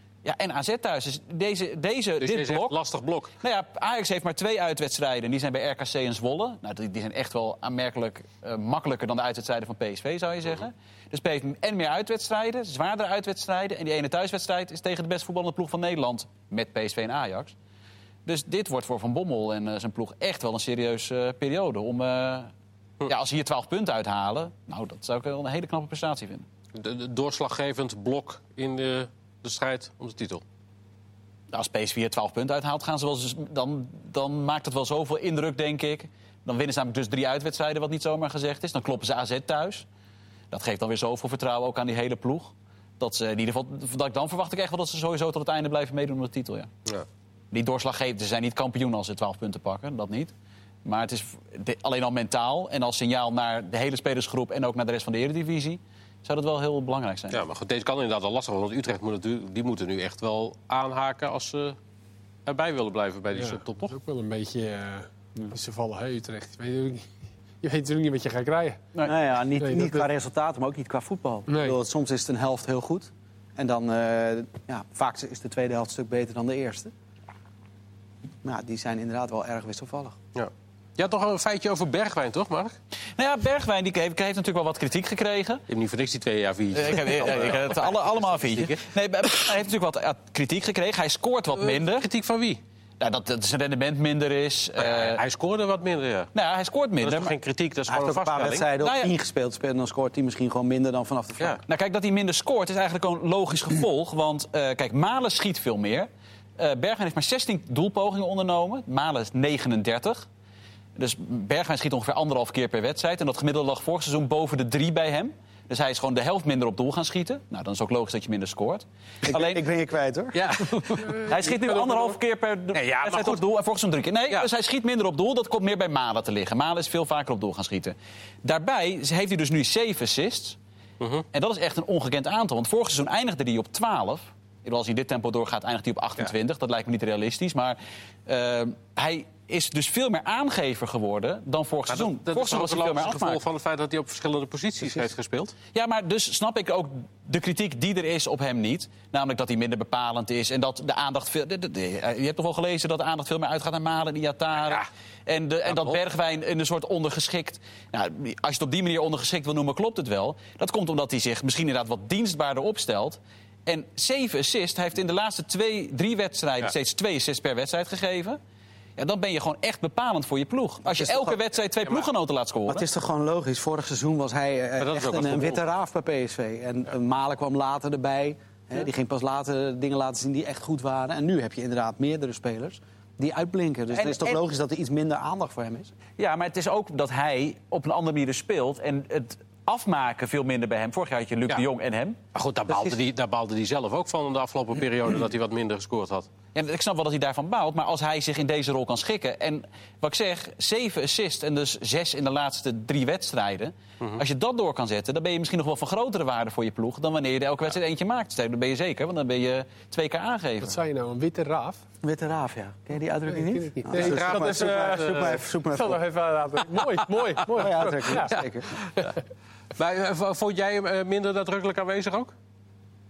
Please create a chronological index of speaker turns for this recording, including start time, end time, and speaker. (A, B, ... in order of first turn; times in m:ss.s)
0:00.2-0:02.8 A
0:02.2-0:03.3 B
0:03.4-0:17.6 A
0:18.2-0:22.5 A
0:23.1-0:26.5 A
0:26.7-0:30.4 B
0:31.5-0:39.9 A
0:40.5-0:46.7 A
0:47.5-0:50.3 A
0:50.8-0:57.4 A
0:57.3-1:01.8 B
1:02.5-1:04.0 B
1:03.4-1:08.9 C
1:09.0-1:16.9 D
1:09.6-1:10.1 C
1:11.5-1:11.8 C
1:18.4-1:20.2 D
1:20.4-1:22.8 B
1:23.2-1:25.6 A
1:25.7-1:28.9 B
1:26.7-1:32.1 A
1:31.6-1:32.6 B
1:33.0-1:35.2 A
1:34.8-1:36.3 B
1:36.3-1:37.3 A
1:37.0-1:38.7 B
1:37.9-1:41.6 D
1:38.8-1:39.1 A
1:41.7-1:50.2 A
1:51.0-1:59.6 A
1:59.2-2:00.4 D
2:00.3-2:01.3 B
2:00.6-2:10.6 A
2:01.0-2:02.1 C
2:02.7-2:03.4 B
2:11.0-2:11.2 B
2:11.3-2:23.4 A
2:21.9-2:25.5 B
2:25.7-2:48.4 A
2:35.7-2:36.0 B
2:49.0-2:52.8 A
2:50.8-2:51.4 D
2:52.7-3:05.9 D
2:54.8-2:55.6 B
3:03.9-3:04.4 A
3:06.2-3:12.2 A
3:12.3-3:16.3 B
3:16.5-3:30.8 A
3:30.6-3:31.8 C
3:32.0-3:36.0 D
3:33.3-3:38.4 C
3:33.9-3:35.4 B
3:37.6-3:38.7 D
3:38.0-3:39.2 B
3:39.8-3:42.3 B